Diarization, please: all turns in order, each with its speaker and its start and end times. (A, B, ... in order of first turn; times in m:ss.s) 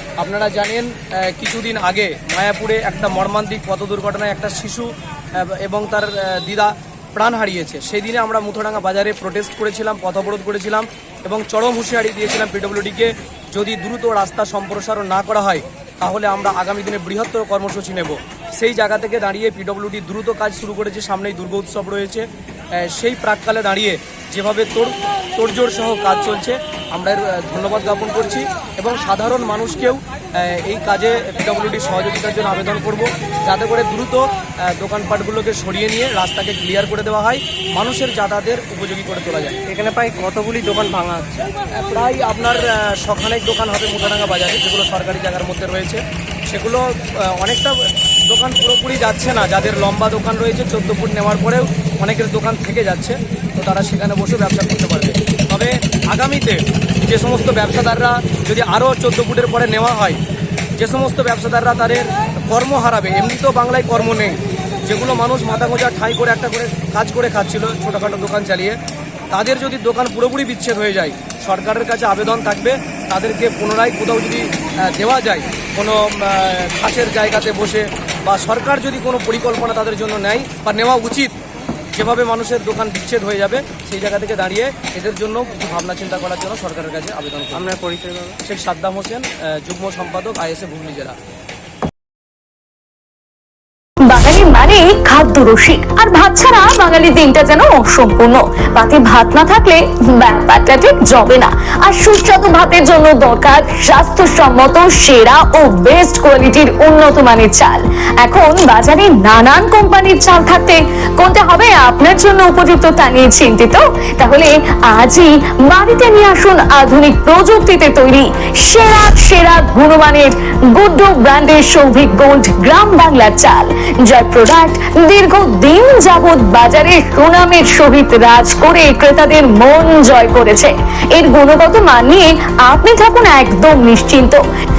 0:00.2-0:22.2 A
0:22.8-0:39.6 A
0:39.7-0:41.5 B
0:41.8-1:00.2 A
1:00.8-1:08.8 A
1:09.3-1:21.4 A
1:21.9-1:27.7 A
1:27.5-1:28.4 B
1:28.5-1:31.2 A
1:34.1-2:14.4 C